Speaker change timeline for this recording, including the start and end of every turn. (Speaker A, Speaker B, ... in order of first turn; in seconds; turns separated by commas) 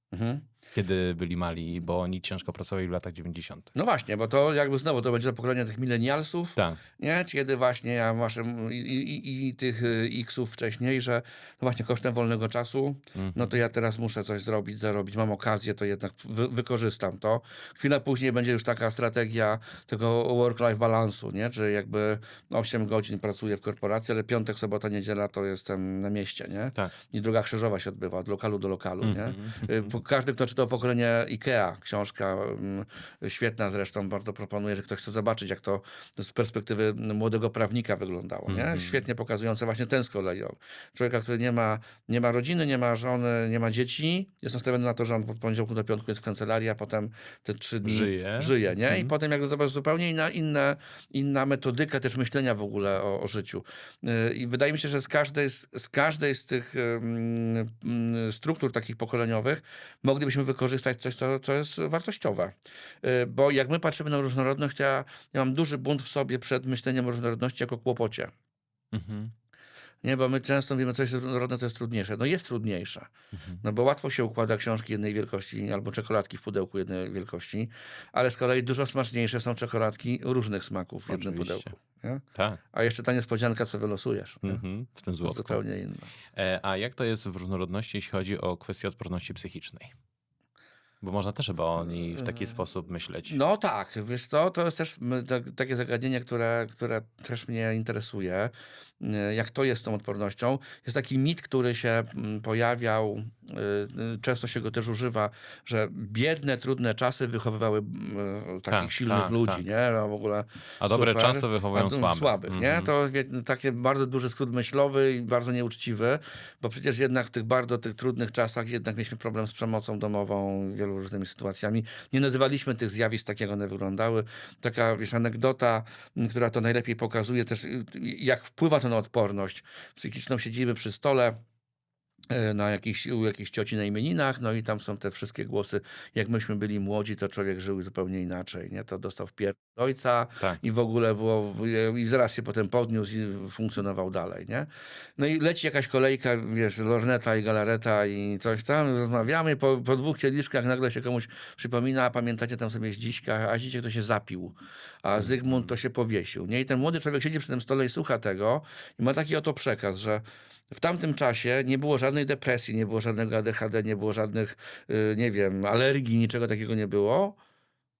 Speaker A: 0.1-0.5, Speaker B: 0.7-3.7, Speaker A: 3.7-68.3, Speaker B: 6.5-6.8, Speaker B: 13.2-13.5, Speaker B: 29.0-29.9, Speaker B: 38.5-39.0, Speaker B: 47.8-49.1, Speaker B: 68.9-69.3, Speaker A: 70.0-73.1, Speaker A: 73.6-84.6, Speaker B: 81.1-81.7, Speaker B: 82.3-82.6, Speaker B: 84.4-85.6, Speaker A: 85.2-86.1, Speaker B: 86.3-89.9, Speaker B: 91.0-93.4, Speaker A: 92.0-92.6, Speaker A: 93.2-131.4, Speaker B: 108.7-109.6, Speaker B: 110.8-112.9, Speaker A: 132.3-167.4, Speaker B: 155.2-155.7